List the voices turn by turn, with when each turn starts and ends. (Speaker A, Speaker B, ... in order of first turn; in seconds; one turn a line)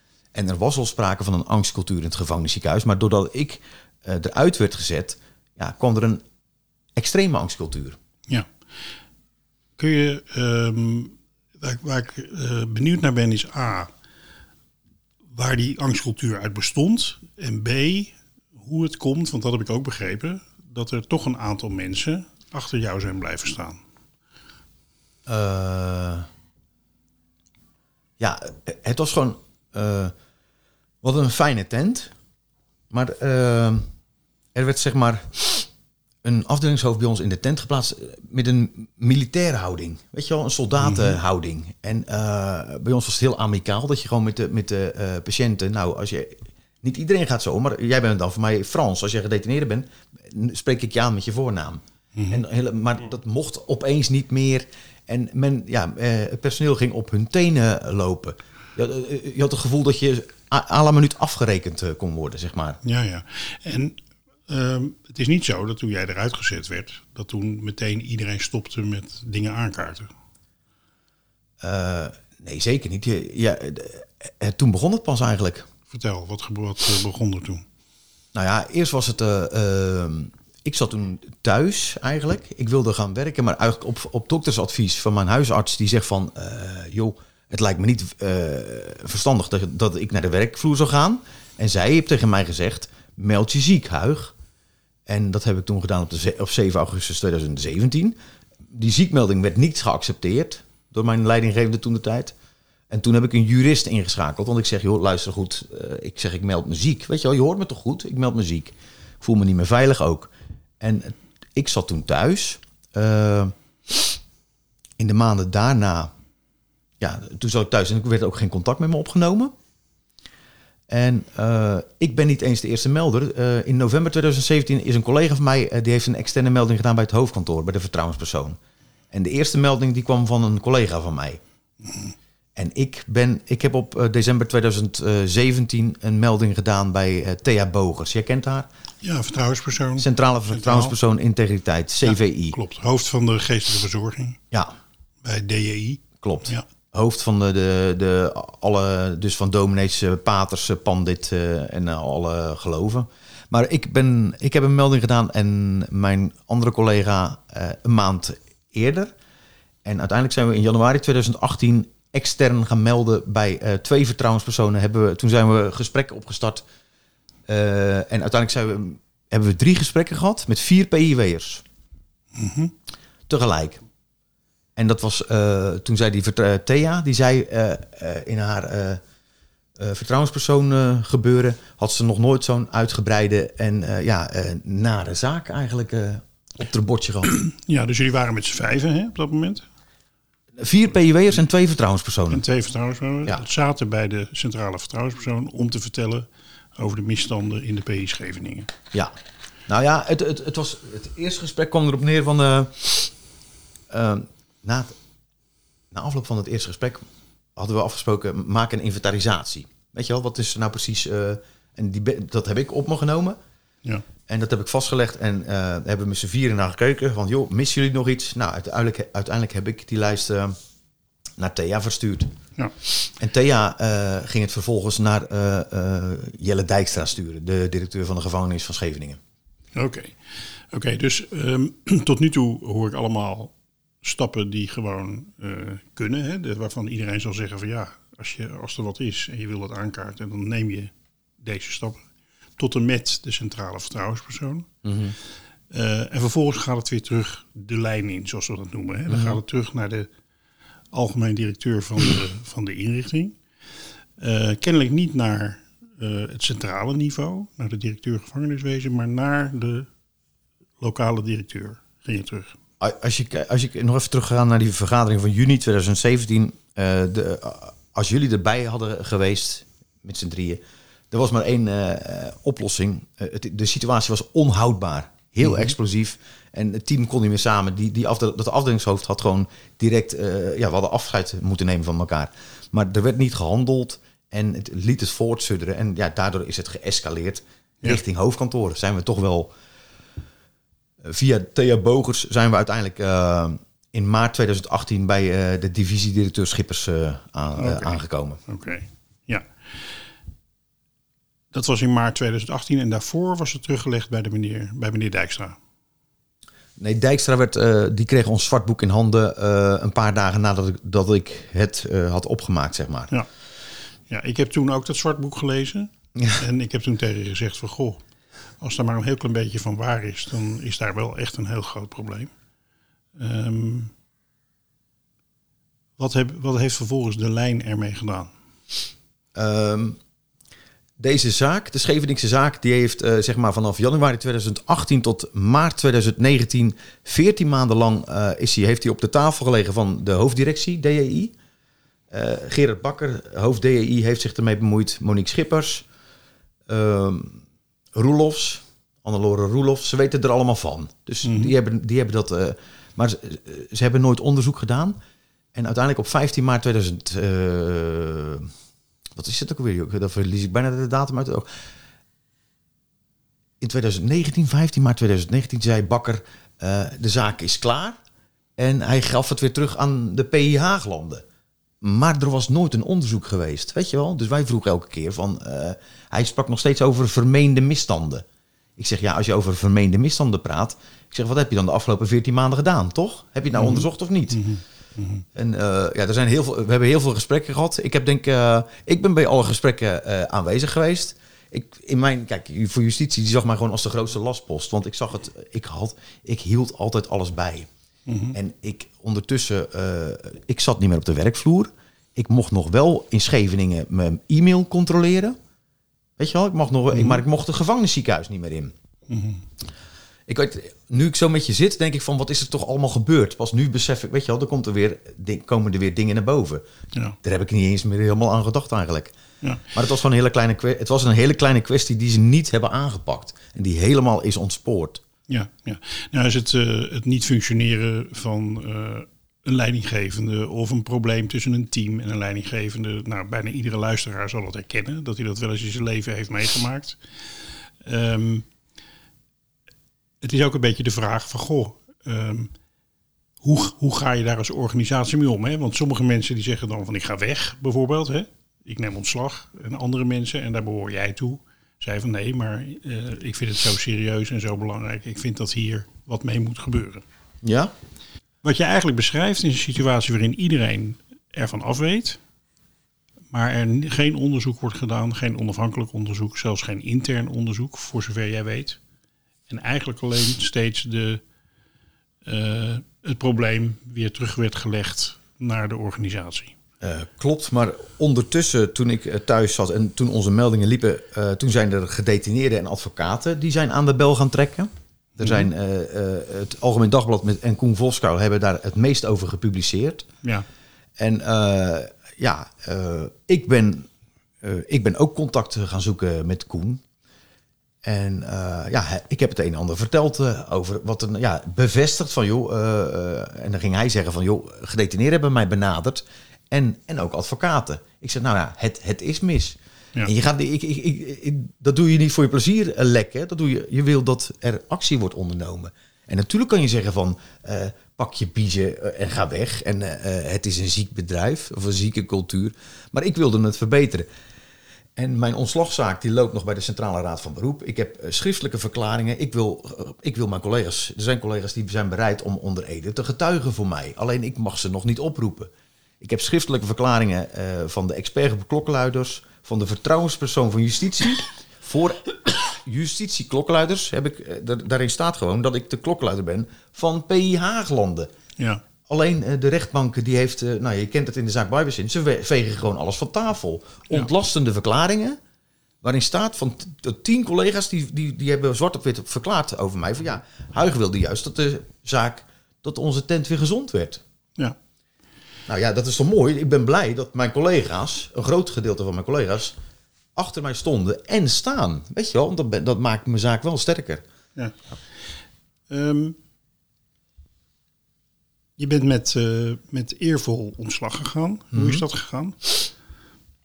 Speaker A: 0.3-6.2
Speaker A: 7.0-8.0
Speaker B: 9.8-13.9
Speaker B: 15.3-23.8
Speaker A: 25.3-26.3
Speaker A: 28.2-30.1
Speaker A: 31.0-32.1
Speaker A: 32.9-33.8
Speaker A: 34.5-35.7
Speaker A: 36.2-62.8
Speaker B: 40.8-41.2
Speaker B: 52.1-52.4
Speaker B: 62.8-70.1
Speaker A: 71.6-75.7
Speaker B: 75.9-77.6
Speaker A: 78.3-94.3
Speaker A: 95.1-98.2
Speaker A: 98.7-102.3
Speaker A: 102.9-114.2
Speaker A: 115.0-116.1
Speaker A: 117.0-119.5
Speaker A: 120.9-128.6
Speaker A: 129.1-131.4
Speaker B: 131.9-132.1
Speaker A: 132.6-138.7
Speaker B: 139.0-140.9
Speaker A: 140.0-142.6
Speaker B: 142.0-144.4
Speaker B: 145.2-146.6
Speaker A: 146.2-159.1
Speaker A: 159.8-166.6
Speaker A: 167.5-171.6
Speaker B: 172.3-172.7
Speaker A: 173.3-173.8
Speaker A: 174.8-179.0
Speaker A: 179.8-187.3
Speaker B: 187.4-189.6
Speaker A: 190.6-192.4
Speaker B: 192.3-198.7
Speaker A: 199.7-203.1
Speaker A: 203.9-204.9
Speaker A: 205.9-207.0
Speaker A: 207.6-213.4
Speaker A: 214.3-220.6
Speaker A: 221.4-222.3
Speaker A: 223.1-229.2
Speaker B: 229.7-230.2
Speaker B: 230.7-242.0
Speaker B: 242.6-244.7
Speaker A: 244.8-245.1
Speaker B: 245.7-250.1
Speaker A: 249.1-249.4
Speaker B: 250.9-253.4
Speaker B: 254.2-259.9
Speaker B: 260.8-262.6
Speaker A: 262.8-289.5
Speaker A: 291.0-298.4
Speaker B: 297.6-297.9
Speaker B: 298.5-299.9
Speaker B: 301.5-305.6
Speaker A: 306.8-313.1
Speaker B: 314.1-318.0
Speaker B: 318.6-322.3
Speaker B: 323.2-323.9
Speaker B: 326.0-328.3
Speaker A: 329.3-330.0
Speaker A: 331.0-341.3
Speaker A: 342.1-345.8
Speaker A: 346.7-347.4
Speaker A: 347.9-355.0
Speaker B: 351.2-351.5
Speaker A: 355.5-358.5
Speaker A: 359.1-361.5
Speaker A: 363.6-368.0
Speaker A: 368.6-371.2
Speaker A: 371.8-378.2
Speaker A: 378.8-384.5
Speaker B: 383.5-385.2
Speaker A: 385.3-397.7
Speaker B: 398.1-398.4
Speaker A: 398.3-405.4
Speaker A: 406.2-408.7
Speaker B: 406.9-407.2
Speaker B: 409.1-409.4
Speaker A: 410.3-416.6
Speaker A: 417.2-419.1
Speaker A: 419.7-425.0
Speaker B: 425.3-437.0
Speaker B: 437.8-438.5
Speaker B: 440.2-442.5
Speaker B: 443.4-457.0
Speaker A: 457.4-457.7
Speaker B: 458.4-462.2
Speaker B: 463.3-468.8
Speaker B: 469.5-471.2
Speaker B: 472.2-476.6
Speaker A: 476.8-490.1
Speaker B: 485.2-485.5
Speaker A: 491.0-493.9
Speaker A: 494.4-496.8
Speaker A: 497.8-524.1
Speaker A: 525.0-548.1
Speaker A: 548.9-555.2
Speaker A: 555.8-564.0
Speaker A: 565.5-569.5
Speaker A: 570.1-574.0
Speaker B: 575.7-576.2
Speaker B: 578.6-582.6
Speaker A: 581.5-581.8